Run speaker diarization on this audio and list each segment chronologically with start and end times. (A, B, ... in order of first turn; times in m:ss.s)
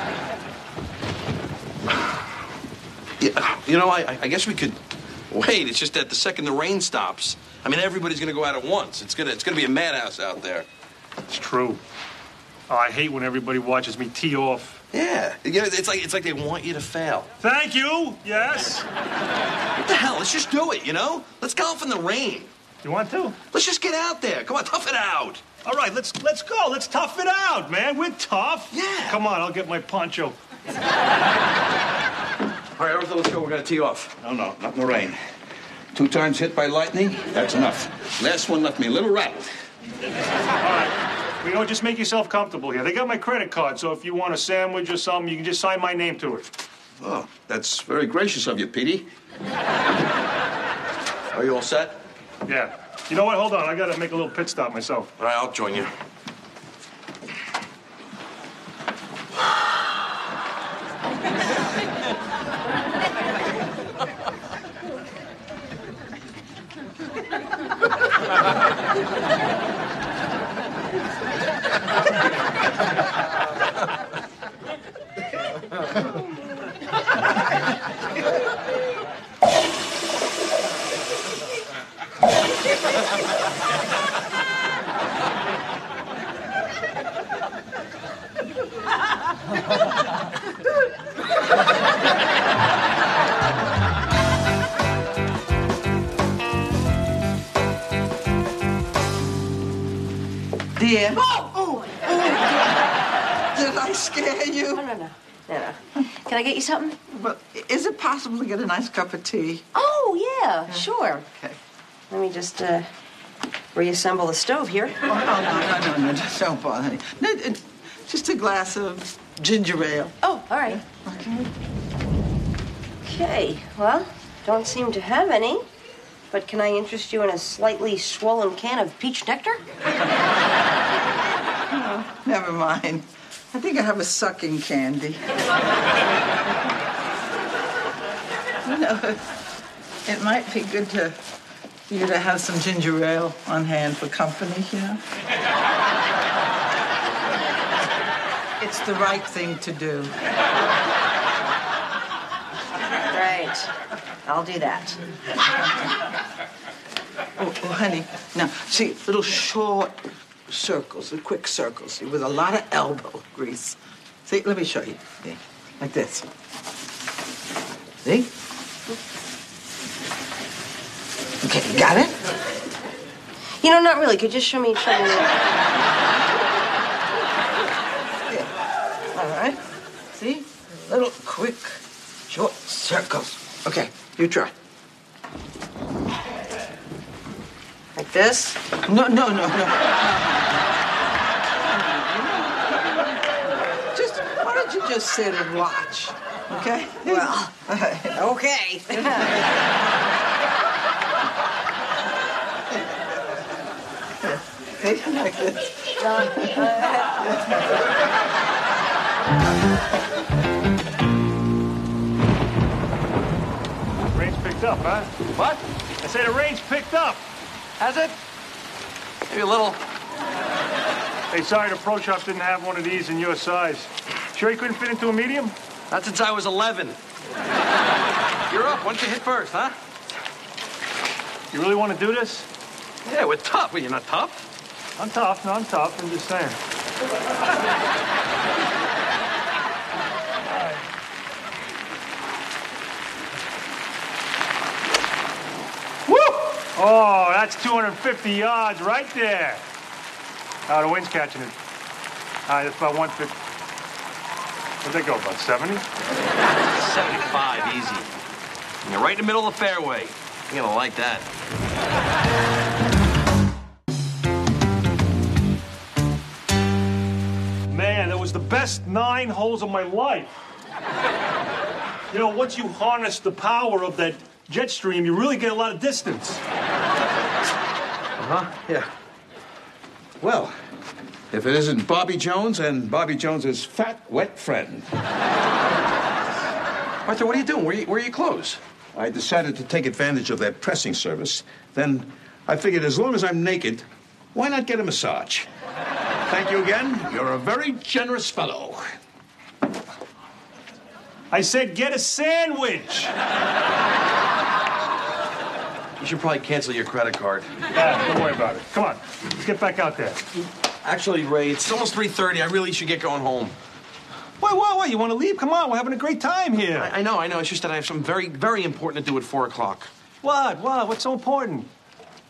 0:03.2-0:04.8 A
0:05.3-0:10.6 A
0:11.3-0:11.8 B
0:12.7-0:14.8 B
0:14.9-0:17.3 A
0:17.4-0:18.8 B
0:19.8-0:22.5 A
0:22.8-0:23.4 B
0:23.5-0:25.4 A
0:25.6-0:30.3 B
0:28.7-0:29.2 A
0:32.8-0:34.2 A
0:34.2-0:35.2 C
0:35.9-0:39.5 C
0:40.6-0:46.5 B
0:47.0-0:49.1 C
0:51.3-0:52.0 A
0:52.4-0:55.1 B
0:55.2-0:55.9 A
1:40.8-1:42.7 D
1:43.5-1:44.8 D
1:44.7-1:47.0 E
1:47.1-1:49.6 D
1:49.7-1:51.2 E
1:50.7-1:51.6 D
1:52.1-1:52.9 E
1:53.7-1:55.0 E
1:55.0-2:00.2 D
2:00.2-2:00.8 E
2:00.7-2:01.5 D
2:03.0-2:05.6 E
2:06.3-2:09.6 E
2:11.7-2:15.2 D
2:18.6-2:19.2 D
2:20.0-2:21.2 D
2:21.9-2:25.0 D
2:28.6-2:30.1 D
2:33.1-2:33.7 E
2:34.2-2:35.0 E
2:37.4-2:40.0 D
2:40.5-2:46.2 D
2:48.0-2:48.3 D
2:51.4-2:52.1 D
2:53.6-2:55.4 E
2:59.1-2:59.6 D
3:00.1-3:04.5 D
3:08.0-3:10.4 D
3:11.7-3:13.0 D
3:13.9-3:18.2 D
3:17.0-3:17.5 E
3:18.1-3:19.4 E
3:18.9-3:19.3 D
3:24.2-3:27.8 D
3:26.0-3:27.3 E
3:34.1-3:35.1 B
3:35.3-3:35.6 A
3:36.0-3:37.3 B
3:37.8-3:38.2 A
3:39.3-3:39.8 A
3:41.3-3:45.5 B
3:45.9-3:47.0 A
3:48.5-3:49.7 A
3:51.5-3:52.5 B
3:53.0-3:54.4 A
3:55.0-3:56.6 B
4:00.5-4:00.8 B
4:06.1-4:09.6 B
4:10.7-4:11.5 B
4:12.5-4:13.3 B
4:14.8-4:15.8 B
4:16.7-4:18.1 A
4:18.8-4:21.3 A
4:27.7-4:30.4 B
4:32.1-4:36.4 B
4:38.2-4:38.9 A
4:40.2-4:40.5 C
4:41.3-4:44.9 C
4:47.0-4:48.6 A
4:48.9-4:55.5 C
4:56.3-4:58.8 C
5:01.3-5:03.1 B
5:06.0-5:07.5 A
5:07.7-5:10.2 B
5:10.8-5:13.5 A
5:14.4-5:16.9 B
5:16.7-5:19.9 A
5:20.2-5:21.7 B